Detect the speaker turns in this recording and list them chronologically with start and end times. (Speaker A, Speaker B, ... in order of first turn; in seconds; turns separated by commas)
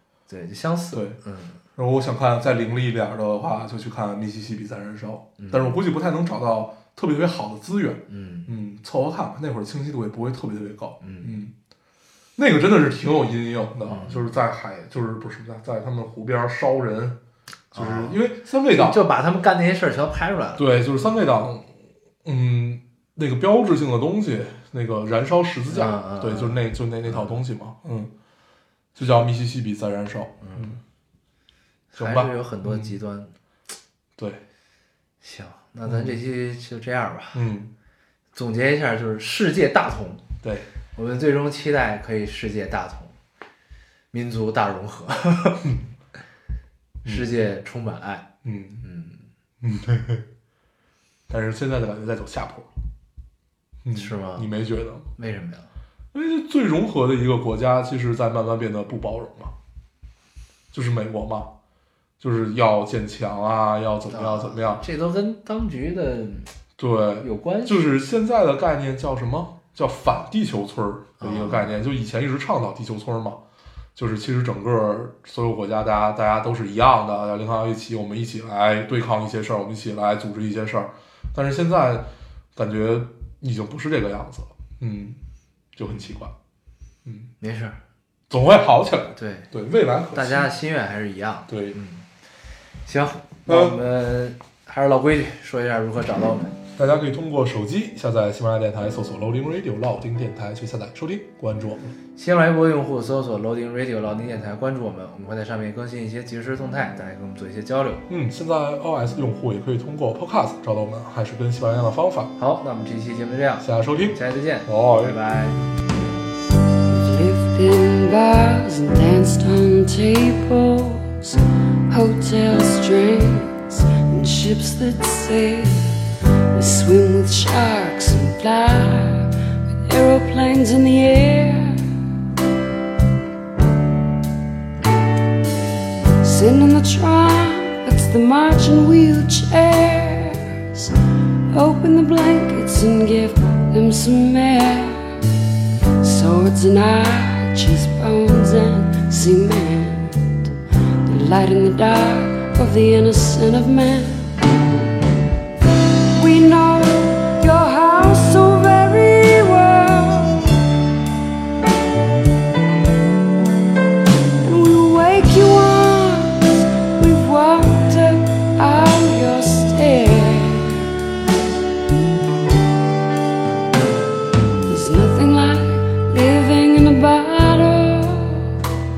Speaker A: 0.3-1.6, Speaker B: 0.9-1.2, Speaker B: 1.8-11.5, Speaker A: 5.4-5.8, Speaker A: 8.1-8.5, Speaker A: 11.0-11.3, Speaker B: 12.4-17.2, Speaker A: 13.8-14.3, Speaker A: 17.7-18.2, Speaker B: 17.8-19.0, Speaker A: 18.7-21.1, Speaker B: 20.6-21.7, Speaker B: 22.2-28.1, Speaker A: 25.7-27.4, Speaker B: 28.9-30.8, Speaker A: 30.4-30.8, Speaker A: 31.9-33.3, Speaker B: 32.0-33.0, Speaker B: 34.2-34.4, Speaker A: 35.2-37.4, Speaker B: 35.9-36.2, Speaker B: 37.3-37.7, Speaker A: 38.3-40.3, Speaker B: 40.4-40.7, Speaker A: 41.0-43.2, Speaker A: 44.1-45.7, Speaker B: 47.0-47.3, Speaker A: 47.0-48.3, Speaker B: 48.4-48.9, Speaker A: 48.8-49.2, Speaker B: 49.6-50.2, Speaker B: 51.3-52.7, Speaker B: 53.8-55.1, Speaker A: 53.9-54.5, Speaker A: 55.2-55.7, Speaker B: 56.1-59.5, Speaker B: 60.7-61.5, Speaker B: 62.2-64.8, Speaker A: 64.1-66.5, Speaker B: 66.8-73.4, Speaker A: 67.2-67.9, Speaker A: 71.2-71.7, Speaker B: 74.0-85.2, Speaker B: 85.8-86.3, Speaker B: 87.0-87.3, Speaker A: 87.4-87.8, Speaker B: 88.3-90.5, Speaker A: 89.2-89.5, Speaker A: 90.1-92.0, Speaker B: 91.5-91.8, Speaker A: 92.8-96.6, Speaker B: 93.5-93.8, Speaker B: 96.8-101.9, Speaker A: 102.2-108.0, Speaker B: 108.1-112.3, Speaker A: 112.4-115.6, Speaker B: 113.6-115.8, Speaker C: 116.9-129.3, Speaker C: 129.8-132.0, Speaker C: 136.2-141.0, Speaker C: 141.5-145.3, Speaker C: 146.0-150.5, Speaker C: 151.1-154.9, Speaker C: 156.1-160.6, Speaker C: 164.4-170.9, Speaker C: 174.7-178.5